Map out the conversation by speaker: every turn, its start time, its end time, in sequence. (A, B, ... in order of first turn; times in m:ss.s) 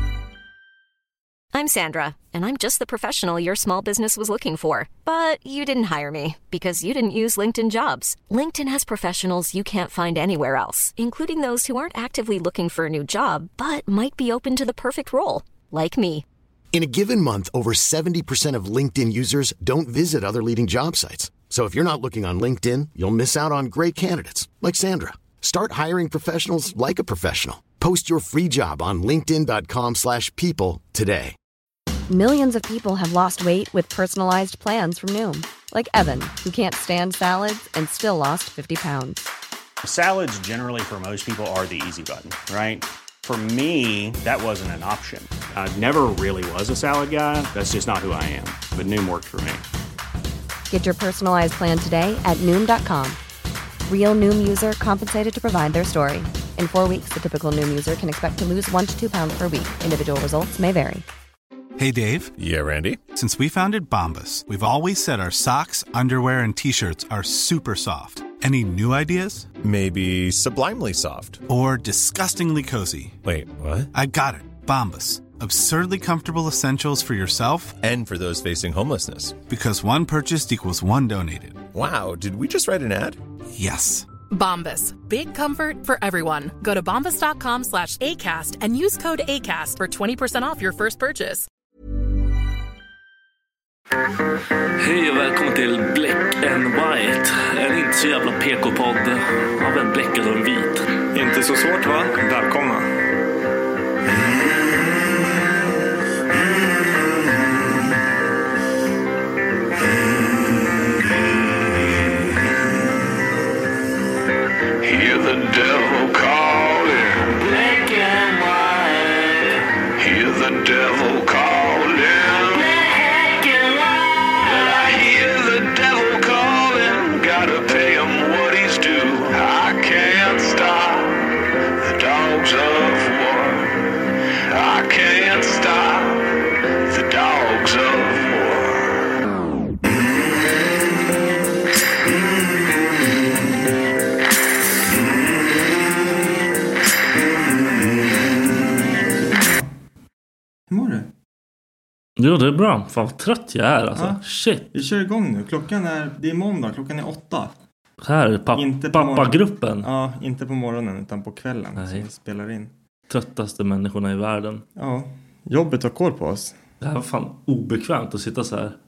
0:01.5-0:16.2 A
0:16.7-0:31.3 B
0:32.1-0:39.3 C
0:39.8-0:49.6 D
0:50.7-0:53.2 C
0:53.9-1:01.0 C
1:01.8-1:02.3 E
1:02.4-1:03.0 F
1:03.1-1:09.5 E
1:09.6-1:11.4 F
1:11.5-1:13.2 E
1:13.2-1:13.9 F
1:13.9-1:17.8 E
1:17.8-1:19.4 F
1:19.4-1:21.6 E
1:21.7-1:23.2 F
1:23.6-1:24.0 E
1:24.3-1:31.5 G
1:34.8-1:40.9 H
1:41.1-1:42.9 I
1:54.8-2:13.7 J
2:14.4-2:19.0 J
2:29.4-2:29.7 I
2:30.7-2:31.1 I
2:32.2-2:34.7 H
2:33.9-2:34.2 I
2:34.7-2:37.5 I
2:38.0-2:39.9 H
2:38.5-2:42.7 I
2:41.8-2:42.0 H
2:43.1-2:44.6 H
2:44.8-2:46.6 I
2:46.8-2:48.8 H